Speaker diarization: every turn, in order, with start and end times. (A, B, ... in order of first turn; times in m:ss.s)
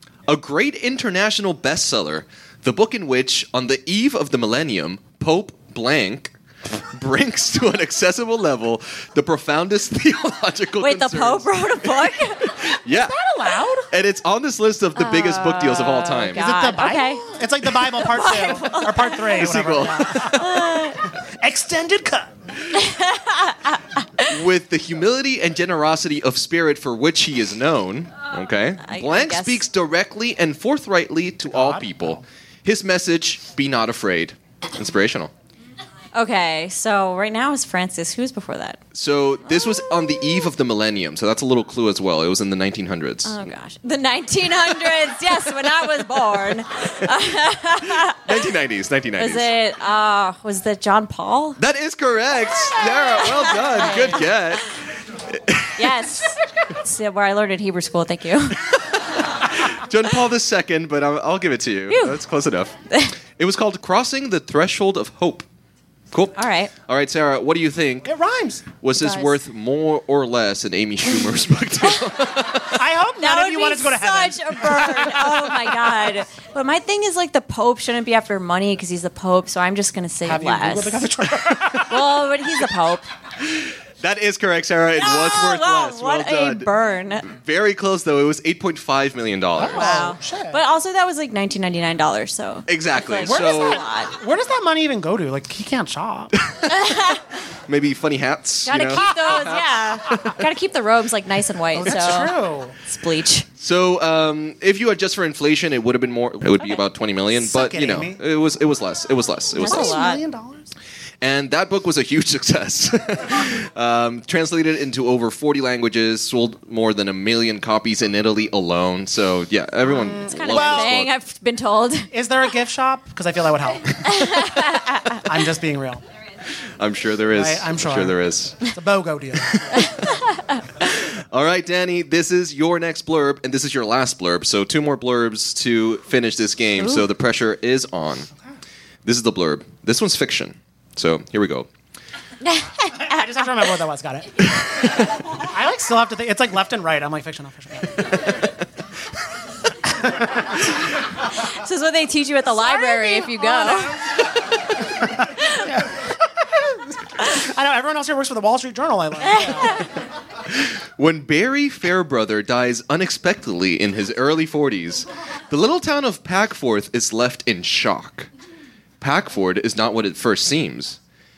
0:00.3-0:06.3 A
0:06.9-0:13.2 A
0:10.8-0:12.5 B
0:13.0-0:13.9 C
0:13.9-0:16.4 A
0:15.0-0:17.2 B
0:16.3-0:20.5 C
0:17.8-0:21.0 B
0:19.4-0:20.5 A
0:21.2-0:22.3 C
0:22.8-0:23.7 B
0:24.2-0:35.3 A
0:28.8-0:29.6 B
0:31.5-0:32.2 C
0:36.1-0:38.8 B
0:38.9-0:43.4 A
0:43.2-0:48.2 B
0:48.1-0:49.5 A
0:49.2-0:51.6 B
0:51.6-0:54.7 A
0:53.2-0:54.3 B
0:55.2-0:55.8 A
0:55.8-0:58.6 B
0:58.7-1:02.7 A
1:01.9-1:02.2 B
1:03.3-1:05.5 A
1:06.1-1:08.1 A
1:06.4-1:06.7 B
1:08.0-1:08.7 C
1:08.8-1:12.8 A
1:09.0-1:09.3 B
1:12.7-1:15.7 C
1:13.2-1:21.0 B
1:20.2-1:22.0 C
1:21.9-1:23.1 B
1:23.5-1:26.7 A
1:25.0-1:27.3 B
1:27.2-1:30.0 A
1:29.6-1:30.6 C
1:29.7-1:34.1 B
1:32.7-1:33.8 A
1:33.2-1:36.3 C
1:36.7-1:37.2 B
1:37.7-1:40.3 A
1:38.6-1:43.5 B
1:41.7-1:42.8 C
1:43.6-1:50.0 A
1:47.4-1:48.2 C
1:49.5-1:50.2 B
1:49.6-1:50.7 C
1:51.2-2:01.1 A
1:59.9-2:01.0 C
1:59.9-2:02.1 B
2:02.1-2:04.0 C
2:04.0-2:05.1 B
2:05.2-2:06.0 C
2:06.8-2:08.7 A
2:07.3-2:08.2 C
2:08.7-2:09.9 C
2:10.8-2:18.3 A
2:19.0-2:21.7 A
2:22.4-2:23.6 B
2:22.9-2:24.5 C
2:25.4-2:28.4 C
2:30.0-2:30.3 C
2:31.5-2:34.0 B
2:32.6-2:34.2 C
2:35.2-2:39.8 C
2:39.3-2:39.8 B
2:40.5-2:48.3 A
2:49.0-2:51.0 A